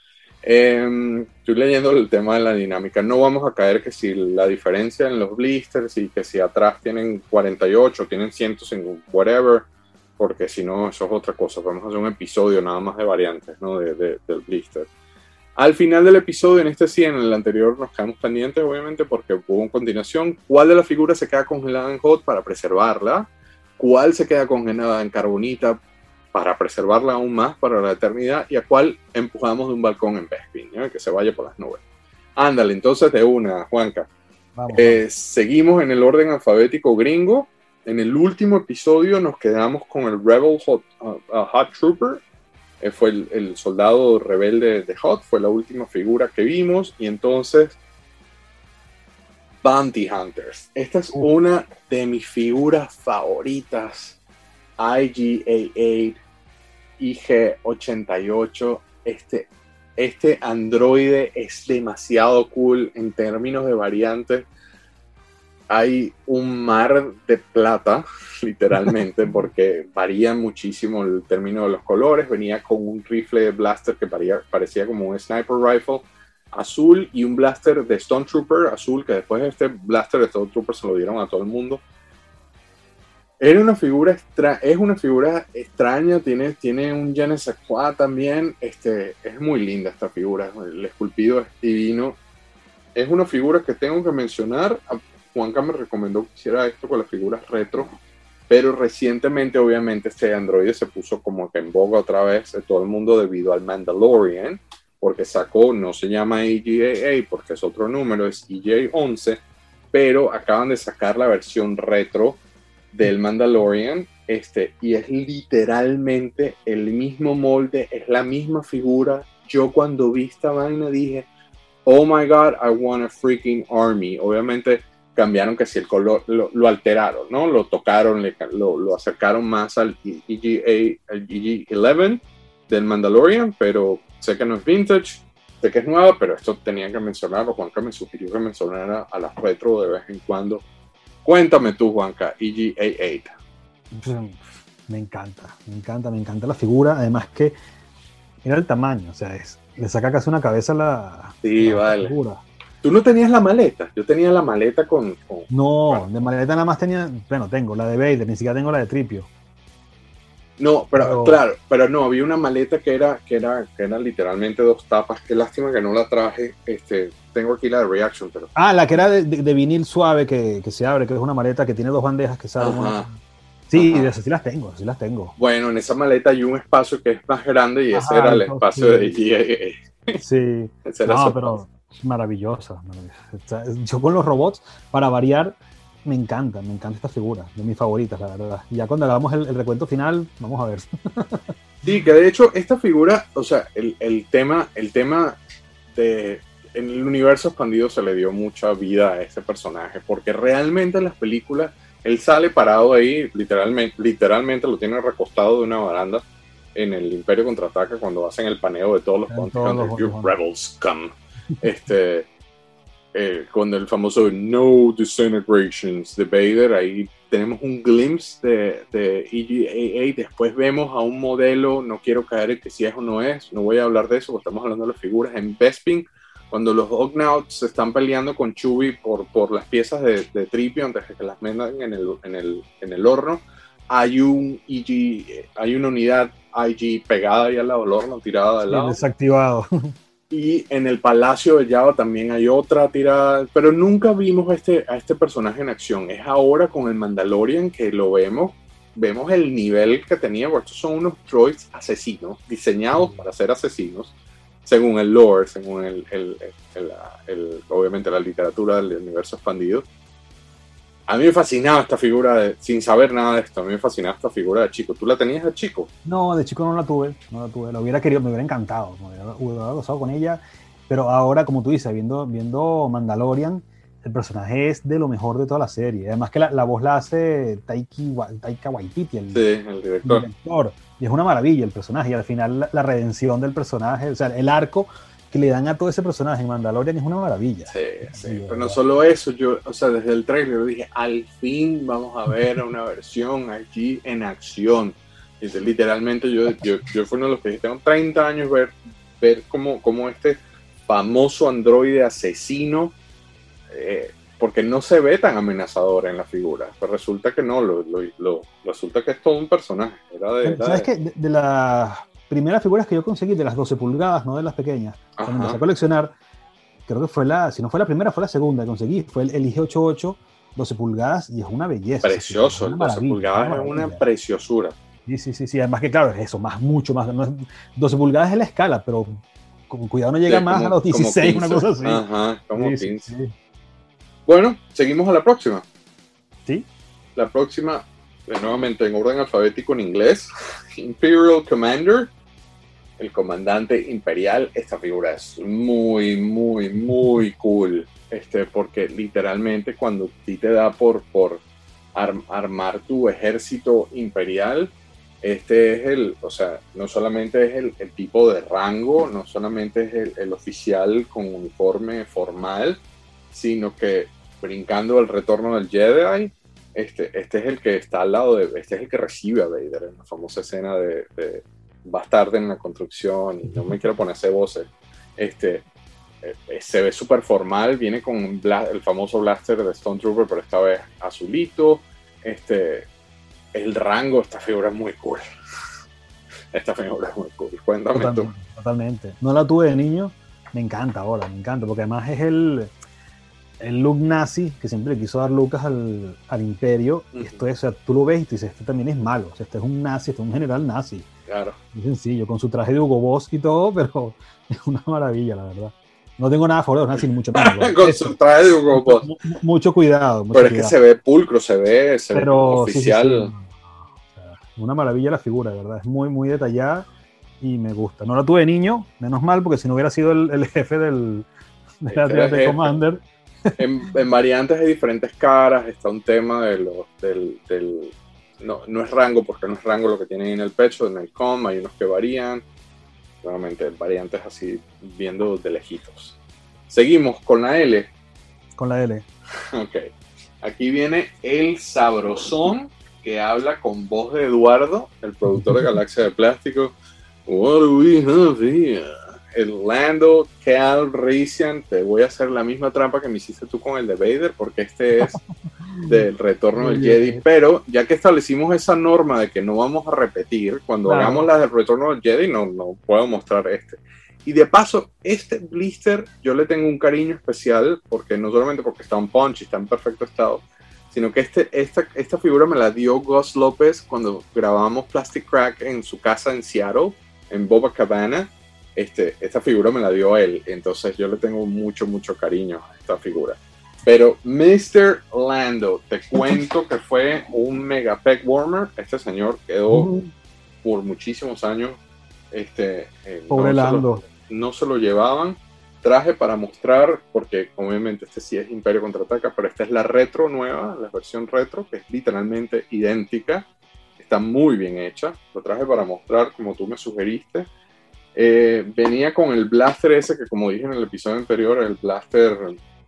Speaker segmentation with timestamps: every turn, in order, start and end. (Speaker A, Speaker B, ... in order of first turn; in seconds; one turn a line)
Speaker A: 0.4-9.7
Speaker A: 10.2-14.9
Speaker A: 15.6-25.8
Speaker A: 26.3-31.8
Speaker A: 32.4-34.1
Speaker B: 34.5-35.0
Speaker A: 34.7-42.2
Speaker A: 42.8-47.8
Speaker A: 49.6-54.2
Speaker A: 54.8-56.2
Speaker A: 57.0-64.5
Speaker A: 65.7-81.8
Speaker A: 83.4-92.2
Speaker A: 92.9-97.9
Speaker A: 98.5-112.4
Speaker A: 112.9-121.3
Speaker A: 121.8-140.6
Speaker A: 141.2-143.3
Speaker B: 143.9-147.5
Speaker B: 148.4-152.4
Speaker A: 151.4-152.1
Speaker A: 152.8-156.1
Speaker B: 155.5-159.3
Speaker A: 160.6-168.5
Speaker B: 160.9-161.4
Speaker B: 168.6-173.2
Speaker A: 172.6-173.1
Speaker B: 173.7-175.3
Speaker A: 173.7-174.1
Speaker A: 175.4-180.2
Speaker B: 177.9-179.1
Speaker B: 180.2-191.5
Speaker A: 180.8-181.6
Speaker A: 191.8-195.4
Speaker A: 195.9-206.2
Speaker A: 206.7-212.3
Speaker B: 209.3-210.3
Speaker A: 213.1-239.0
Speaker B: 238.6-239.9
Speaker A: 240.3-254.1
Speaker A: 254.6-259.8
Speaker A: 261.1-265.9
Speaker B: 266.0-279.4
Speaker A: 279.3-280.2
Speaker B: 280.0-288.8
Speaker A: 287.7-302.9
Speaker A: 303.7-310.9
Speaker B: 310.4-316.1
Speaker A: 315.2-315.6
Speaker B: 316.9-324.0
Speaker A: 322.0-324.7
Speaker B: 325.1-332.0
Speaker A: 330.3-333.1
Speaker B: 332.6-333.3
Speaker A: 334.3-335.6
Speaker A: 337.1-342.1
Speaker A: 343.0-351.4
Speaker A: 351.9-375.6
Speaker A: 376.2-382.9
Speaker A: 383.5-385.2
Speaker A: 386.5-388.3
Speaker B: 387.9-392.7
Speaker B: 393.6-401.1
Speaker A: 397.1-397.4
Speaker A: 401.3-401.6
Speaker B: 401.7-408.2
Speaker A: 407.3-409.1
Speaker B: 408.7-410.7
Speaker A: 410.3-413.3
Speaker B: 412.1-413.6
Speaker B: 414.1-416.9
Speaker B: 417.4-421.3
Speaker B: 421.8-423.5
Speaker A: 421.9-422.8
Speaker A: 423.6-432.4
Speaker A: 433.2-436.2
Speaker A: 436.7-437.9
Speaker B: 438.6-439.1
Speaker A: 439.5-439.9
Speaker A: 440.4-446.7
Speaker A: 447.2-455.2
Speaker A: 455.8-489.9
Speaker B: 456.6-457.2
Speaker B: 460.8-461.3
Speaker B: 489.7-490.1
Speaker A: 490.6-491.8
Speaker A: 492.3-507.5
Speaker B: 493.3-494.0
Speaker A: 508.1-512.6